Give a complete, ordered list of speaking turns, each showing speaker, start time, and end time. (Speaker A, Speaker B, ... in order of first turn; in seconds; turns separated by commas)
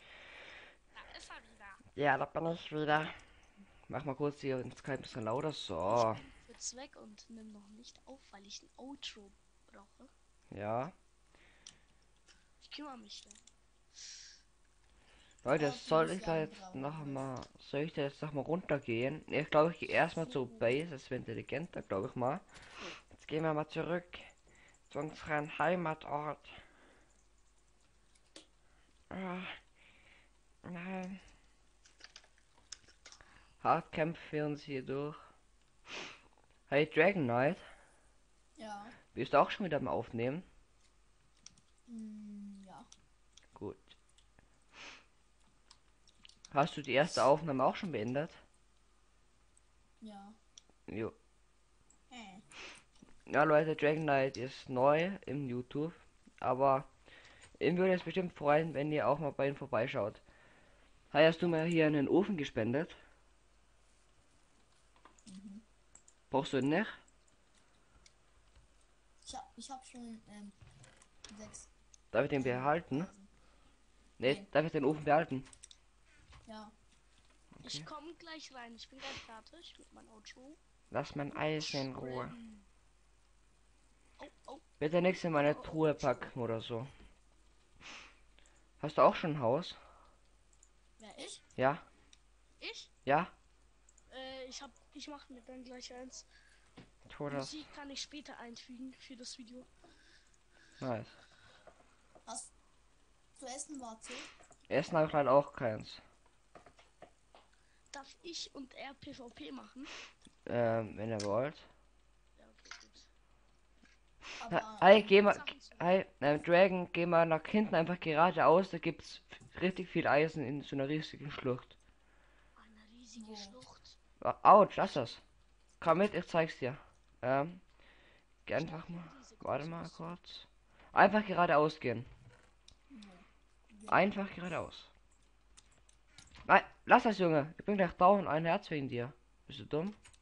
Speaker A: 0.9-1.8, Speaker B: 2.0-3.2, Speaker B: 3.9-6.2, Speaker A: 5.8-10.1, Speaker B: 10.5-10.9, Speaker A: 12.6-13.4, Speaker B: 15.4-22.4, Speaker C: 15.4-17.3, Speaker C: 20.3-20.6, Speaker B: 23.1-24.3, Speaker B: 24.9-26.6, Speaker B: 29.1-29.5, Speaker B: 30.6-31.2, Speaker B: 33.6-35.2, Speaker B: 36.7-37.6, Speaker C: 38.6-39.0, Speaker B: 39.1-40.5, Speaker C: 41.9-42.9, Speaker B: 43.6-44.0, Speaker B: 46.5-48.4, Speaker C: 50.0-50.4, Speaker B: 50.9-51.1, Speaker C: 52.1-52.5, Speaker B: 53.3-56.9, Speaker B: 57.6-60.2, Speaker B: 61.1-63.0, Speaker C: 65.2-65.6, Speaker B: 66.3-67.0, Speaker C: 69.2-70.6, Speaker C: 71.3-71.7, Speaker B: 72.1-73.1, Speaker C: 72.3-73.3, Speaker B: 74.2-75.5, Speaker C: 74.2-74.5, Speaker C: 76.5-76.8, Speaker B: 77.6-77.9, Speaker A: 77.6-80.6, Speaker B: 80.9-82.4, Speaker A: 81.6-82.7, Speaker A: 84.2-84.7, Speaker B: 84.8-86.9, Speaker A: 85.3-86.3, Speaker B: 88.8-89.8, Speaker A: 91.0-91.4, Speaker B: 91.6-91.8, Speaker A: 92.6-92.9, Speaker B: 93.0-93.3, Speaker A: 94.1-96.3, Speaker B: 97.1-97.6, Speaker A: 97.3-99.7, Speaker B: 100.8-101.2, Speaker C: 102.2-102.5, Speaker C: 103.4-104.3, Speaker B: 104.7-106.0, Speaker A: 107.9-109.9, Speaker B: 110.5-111.7, Speaker A: 112.4-113.1, Speaker C: 114.4-115.1, Speaker B: 114.5-121.8, Speaker A: 114.9-116.0, Speaker A: 122.6-124.0, Speaker C: 123.1-123.6, Speaker B: 124.2-125.2, Speaker B: 125.8-127.6, Speaker B: 128.5-132.1, Speaker A: 128.5-130.2, Speaker C: 132.9-134.3, Speaker B: 133.9-134.9, Speaker B: 136.5-140.0